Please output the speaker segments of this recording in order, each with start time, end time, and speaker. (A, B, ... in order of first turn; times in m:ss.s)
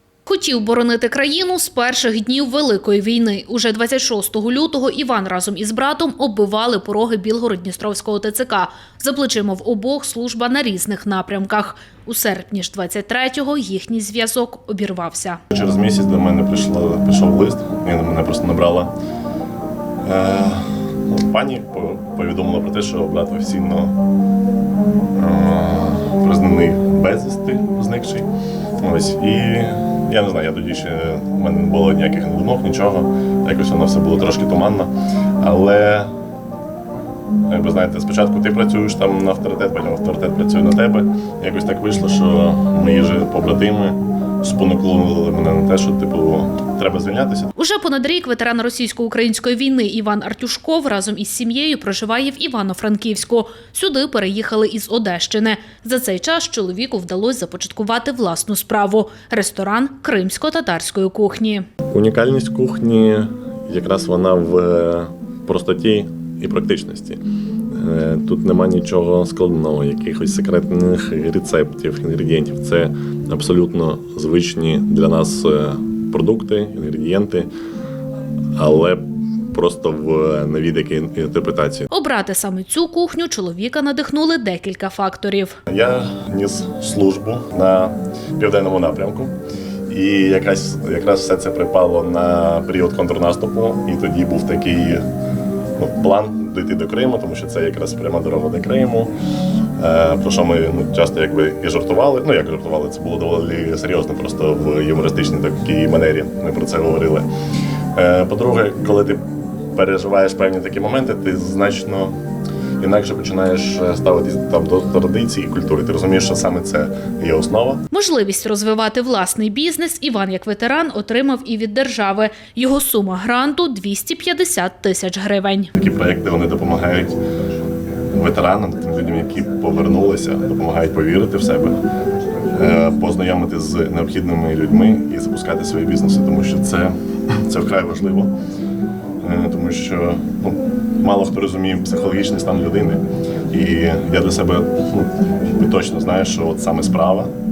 0:00.2-0:15.4 A
0:15.5-0:18.9 B
0:20.0-0:24.0 B
0:25.2-0:28.3 B
0:28.8-0:36.1 B
0:37.5-0:47.5 B
0:47.6-1:01.7 A
1:01.9-1:07.2 B
1:07.8-1:17.5 B
1:18.6-1:21.9 B
1:21.9-1:25.6 A
1:25.7-1:29.3 B
1:29.9-1:35.0 B
1:35.8-1:39.1 B
1:39.8-1:47.3 B
1:47.9-1:49.2 B
1:49.7-1:52.2 B
1:52.8-1:57.8 B
1:57.9-2:05.7 A
2:05.8-2:07.2 B
2:08.1-2:11.8 B
2:12.5-2:16.9 B
2:17.5-2:18.3 B
2:19.2-2:27.3 B